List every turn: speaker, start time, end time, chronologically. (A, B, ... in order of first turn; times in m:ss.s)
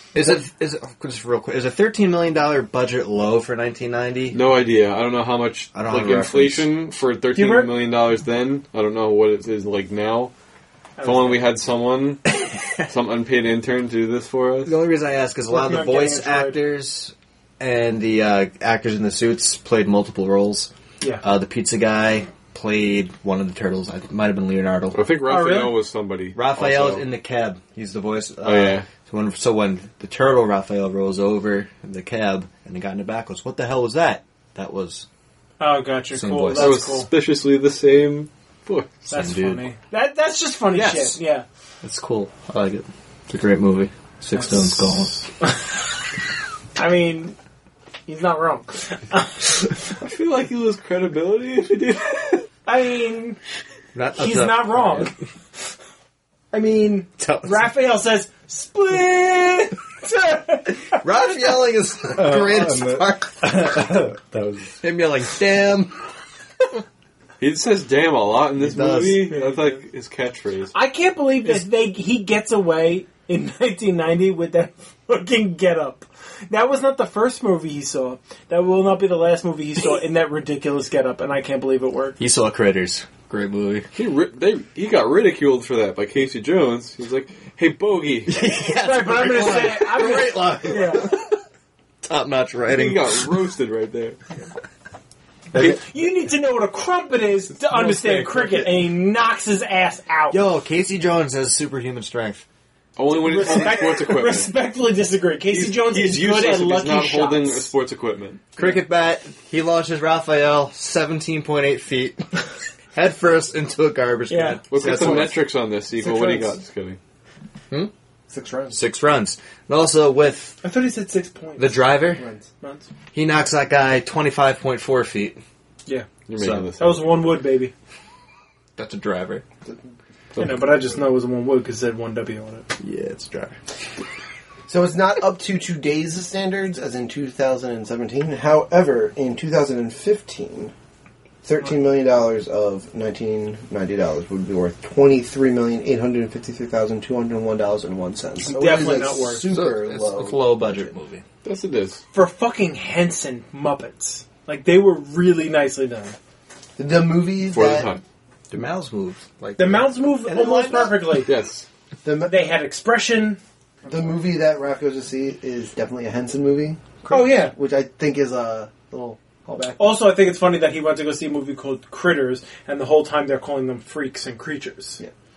0:00.1-0:04.4 A
0:04.3-0:10.3 B
0:05.7-0:06.7 A
0:07.3-0:07.7 C
0:11.0-0:11.5 C
0:11.0-0:14.7 B
0:12.4-0:12.8 A
0:14.6-0:20.7 A
0:15.5-0:16.6 C
0:21.2-0:25.0 A
0:24.9-0:27.0 B
0:25.2-0:25.8 C
0:26.3-0:35.0 A
0:28.4-0:28.9 B
0:35.6-0:37.1 C
0:36.1-0:36.9 A
0:36.5-0:39.1 B
0:39.1-0:41.4 C
0:39.1-0:39.6 A
0:40.7-0:41.2 A
0:41.8-0:45.2 A
0:44.3-0:45.8 C
0:46.8-0:47.4 C
0:48.1-0:49.8 C
0:50.0-0:52.5 B
0:52.6-0:53.4 C
0:53.9-0:55.1 A
0:54.1-0:55.1 C
0:56.5-1:01.4 C
0:57.2-0:57.7 A
1:00.9-1:03.7 A
1:02.1-1:04.8 D
1:04.8-1:06.0 A
1:07.4-1:10.7 B
1:08.6-1:09.4 A
1:09.3-1:09.8 C
1:10.7-1:22.2 C
1:22.2-1:23.9 A
1:23.9-1:28.4 B
1:28.3-1:31.3 A
1:28.7-1:31.1 C
1:32.0-1:33.3 A
1:32.7-1:34.2 B
1:35.5-1:40.4 C
1:35.5-1:35.8 A
1:37.7-1:38.6 B
1:38.0-1:38.5 A
1:40.3-1:42.4 A
1:43.0-1:44.5 B
1:43.2-1:47.7 C
1:45.5-1:48.5 B
1:48.6-1:52.2 A
1:52.9-1:55.4 A
1:54.3-1:55.2 C
1:54.7-1:57.0 B
1:56.0-1:56.4 C
1:58.3-1:58.8 E
1:58.7-2:00.6 A
2:00.6-2:02.1 C
2:01.6-2:02.2 A
2:02.1-2:02.5 E
2:02.6-2:02.9 C
2:03.1-2:05.4 A
2:06.3-2:07.2 B
2:06.4-2:06.7 A
2:06.8-2:07.7 C
2:08.8-2:09.4 A
2:10.3-2:10.6 B
2:10.4-2:12.7 C
2:12.8-2:13.6 A
2:14.7-2:20.7 E
2:21.4-2:30.9 E
2:28.4-2:29.4 C
2:29.5-2:31.2 A
2:31.4-2:32.0 B
2:32.1-2:36.2 C
2:36.8-2:37.9 E
2:37.5-2:38.0 B
2:38.5-2:41.1 A
2:39.6-2:41.3 C
2:41.2-2:41.6 B
2:42.0-2:42.5 E
2:42.2-2:43.4 C
2:43.8-2:49.9 E
2:47.1-2:47.5 C
2:49.8-2:55.0 C